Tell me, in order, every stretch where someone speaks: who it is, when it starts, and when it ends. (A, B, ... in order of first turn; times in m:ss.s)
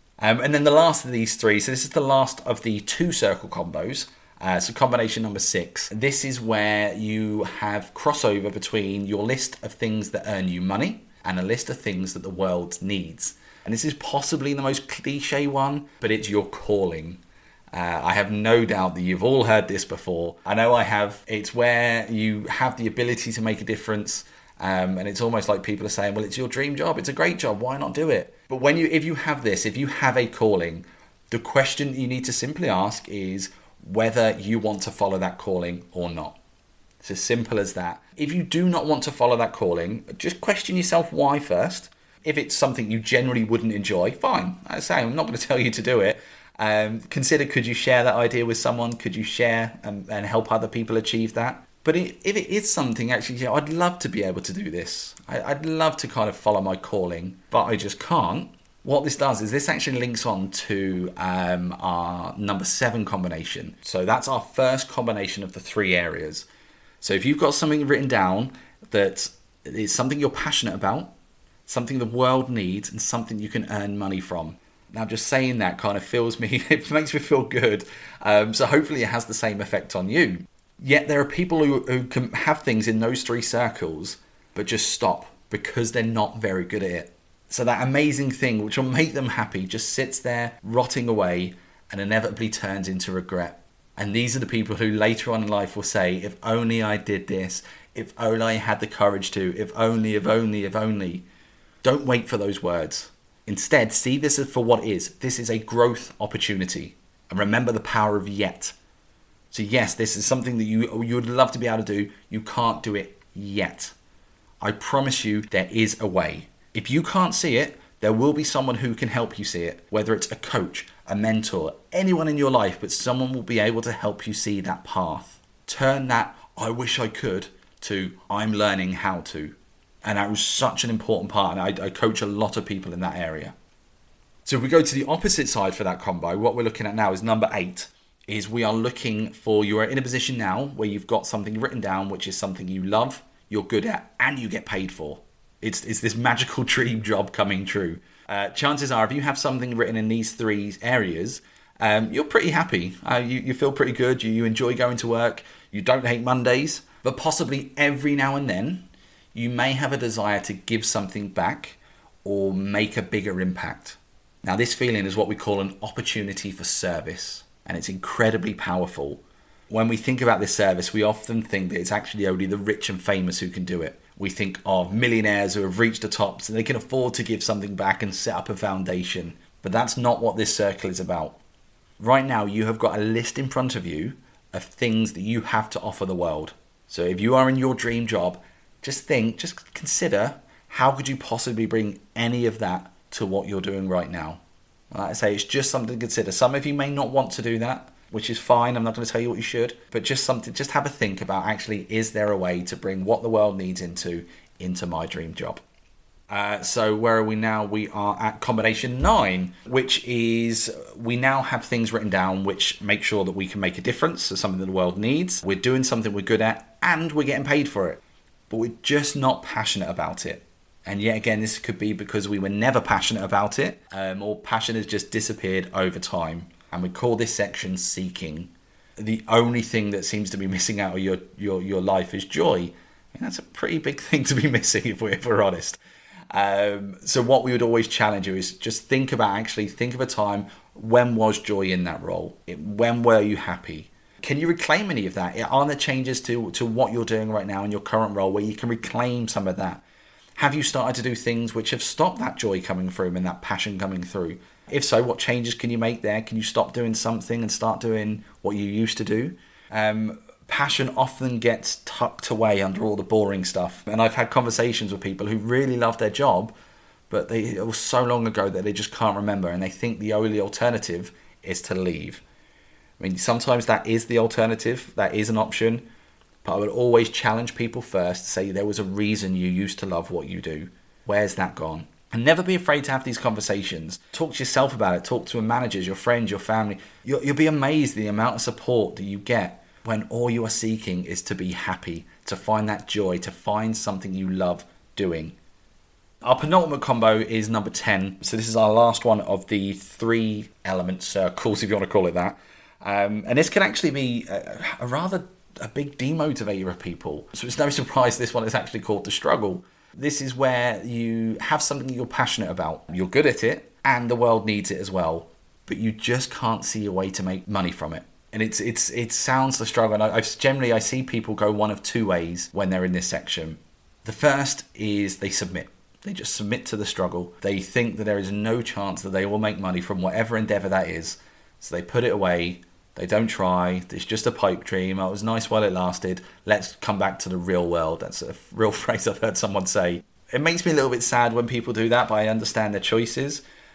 0:00.2-0:17.2 A
0:17.7-0:36.4 A
0:37.0-1:06.5 A
1:07.0-1:11.1 A
1:11.7-1:41.2 A
1:41.8-1:48.8 A
1:49.5-1:53.9 A
1:54.6-2:13.5 A
2:14.4-3:01.4 A
3:02.0-3:25.6 A
3:26.3-3:55.8 A
3:56.3-4:09.8 A
4:10.4-4:26.5 A
4:27.1-4:32.2 A
4:33.0-4:35.9 A
4:36.4-4:55.4 A
4:56.2-5:43.4 A